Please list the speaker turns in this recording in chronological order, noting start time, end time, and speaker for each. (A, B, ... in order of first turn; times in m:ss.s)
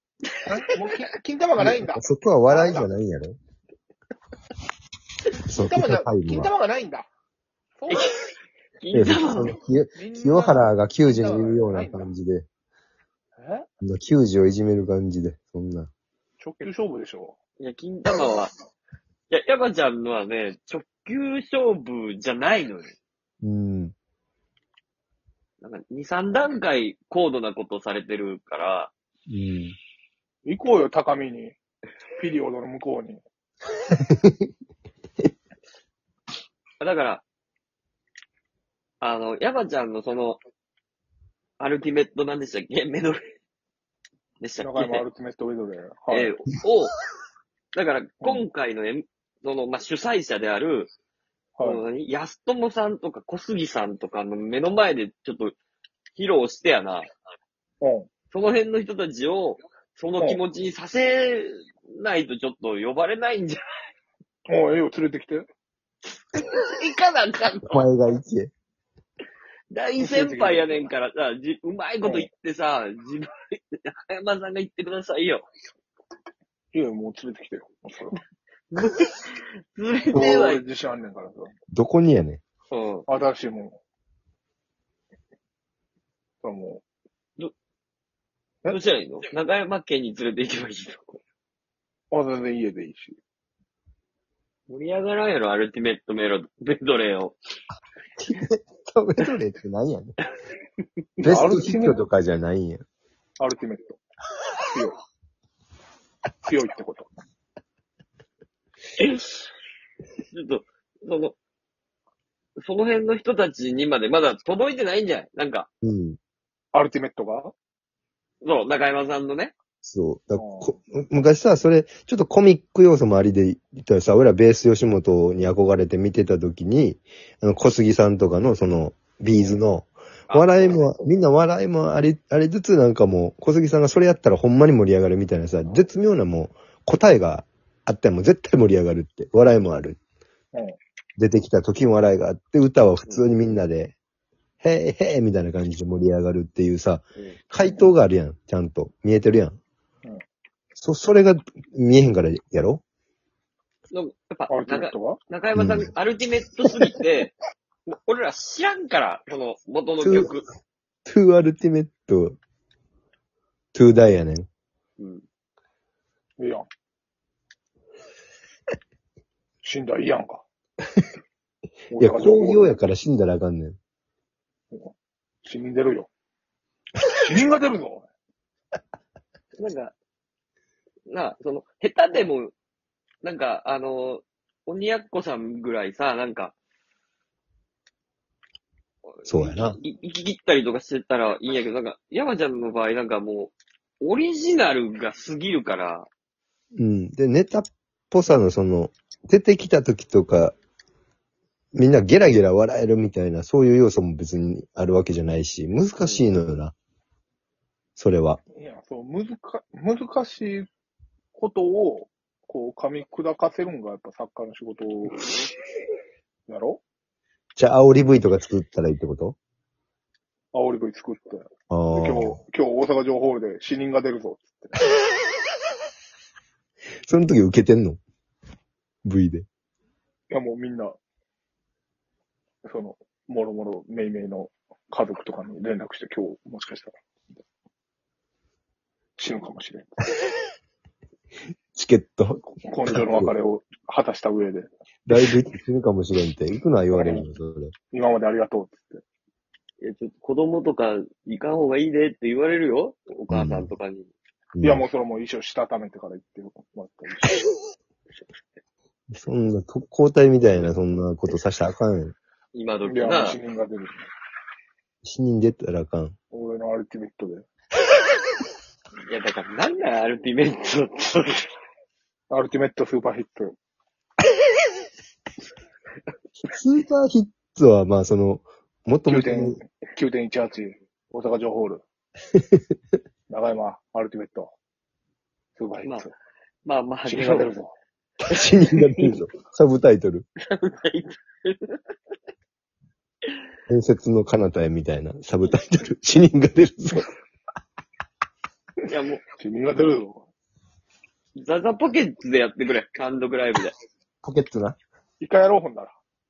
0:00.5-0:02.9 A
0:01.6-0:03.4 B
0:05.5-0:06.5 B
0:05.6-0:07.1 A
0:07.8-0:08.1 A
0:08.8-0:09.6 C
0:08.9-0:12.4 B
0:10.0-0:12.1 A
0:13.4-0:13.7 A
0:13.8-0:15.9 B
0:16.4-0:17.4 A
0:17.6-0:18.5 C
0:19.3-0:23.0 C
0:23.4-0:24.0 B
0:25.6-0:28.9 C
0:29.3-0:29.8 B
0:30.5-0:31.6 A
0:32.2-0:33.2 A
0:34.0-0:34.4 B
0:36.8-0:37.2 C
0:39.0-0:40.4 C
0:41.6-0:43.2 C
0:44.4-0:45.0 C
0:44.6-0:46.3 A
0:46.1-0:46.9 C
0:47.7-0:50.9 C
0:51.6-0:51.8 A
0:51.6-0:55.6 C
0:56.2-0:57.1 C
0:57.8-0:58.1 A
0:58.3-1:03.6 C
1:04.5-1:05.5 A
1:06.4-1:07.8 C
1:07.7-1:08.5 B
1:09.7-1:15.5 C
1:10.0-1:10.9 A
1:12.0-1:12.3 A
1:16.7-1:18.2 A
1:18.7-1:20.6 C
1:20.1-1:21.5 A
1:21.7-1:22.4 B
1:22.7-1:23.1 C
1:23.1-1:23.8 A
1:26.4-1:26.8 A
1:28.7-1:31.2 C
1:32.1-1:33.2 A
1:34.7-1:37.4 C
1:38.2-1:40.2 B
1:41.2-1:42.8 B
1:41.2-1:42.0 A
1:43.4-1:44.0 A
1:44.7-1:45.0 A
1:46.4-1:47.1 A
1:49.0-1:49.5 C
1:50.3-1:51.4 C
1:52.6-1:55.7 C
1:55.8-1:56.2 B
1:56.7-1:57.5 A
1:58.4-1:59.5 C
1:59.8-2:20.0 B
2:00.4-2:00.7 A
2:09.3-2:09.6 A
2:10.3-2:10.9 C
2:21.2-2:24.0 B
2:24.6-2:29.6 B
2:27.6-2:27.9 A
2:30.8-2:32.8 B
2:33.9-2:37.3 C
2:34.5-2:35.2 A
2:35.6-2:35.9 B
2:37.9-2:40.5 C
2:40.0-2:40.4 B
2:41.1-2:42.4 B
2:43.7-2:44.5 B
2:45.0-2:45.2 C
2:46.4-2:46.7 A
2:49.6-2:50.4 A
2:51.9-2:52.8 A
2:52.0-2:53.8 B
2:55.4-2:56.1 A
2:57.1-2:58.1 A
2:59.6-2:59.9 C
3:01.1-3:02.6 C
3:03.2-3:06.6 C
3:09.1-3:16.1 C
3:09.2-3:09.8 B
3:16.8-3:20.6 B
3:21.7-3:26.7 B
3:28.0-3:28.4 B
3:28.6-3:30.7 A
3:31.4-3:35.3 A
3:36.5-3:36.8 A
3:37.6-3:39.4 B
3:40.5-3:44.8 A
3:41.7-3:42.4 B
3:47.1-3:48.0 B
3:49.0-3:49.5 B
3:50.3-3:51.0 A
3:52.6-3:56.9 A
3:59.2-4:00.0 A
4:01.7-4:03.3 B
4:02.7-4:04.7 A
4:05.1-4:07.7 B
4:06.9-4:07.2 A
4:07.9-4:09.0 A
4:09.8-4:14.1 C
4:13.3-4:13.7 B
4:14.5-4:14.8 B
4:14.6-4:17.4 A
4:19.1-4:22.2 B
4:22.5-4:23.4 C
4:22.9-4:24.1 A
4:25.0-4:26.2 B
4:26.3-4:27.5 A
4:29.1-4:31.5 C
4:32.3-4:33.5 A
4:36.5-4:39.6 B
4:39.1-4:41.8 A
4:42.3-4:42.6 B
4:43.3-4:44.5 A
4:45.6-4:46.1 A
4:46.6-4:47.5 C
4:47.0-4:47.7 A
4:48.3-4:50.3 B
4:50.5-4:51.8 C
4:53.7-4:57.1 B
4:58.9-4:59.2 C
4:59.4-5:00.3 A
5:01.4-5:03.7 C
5:04.2-5:04.8 B
5:05.2-5:06.0 A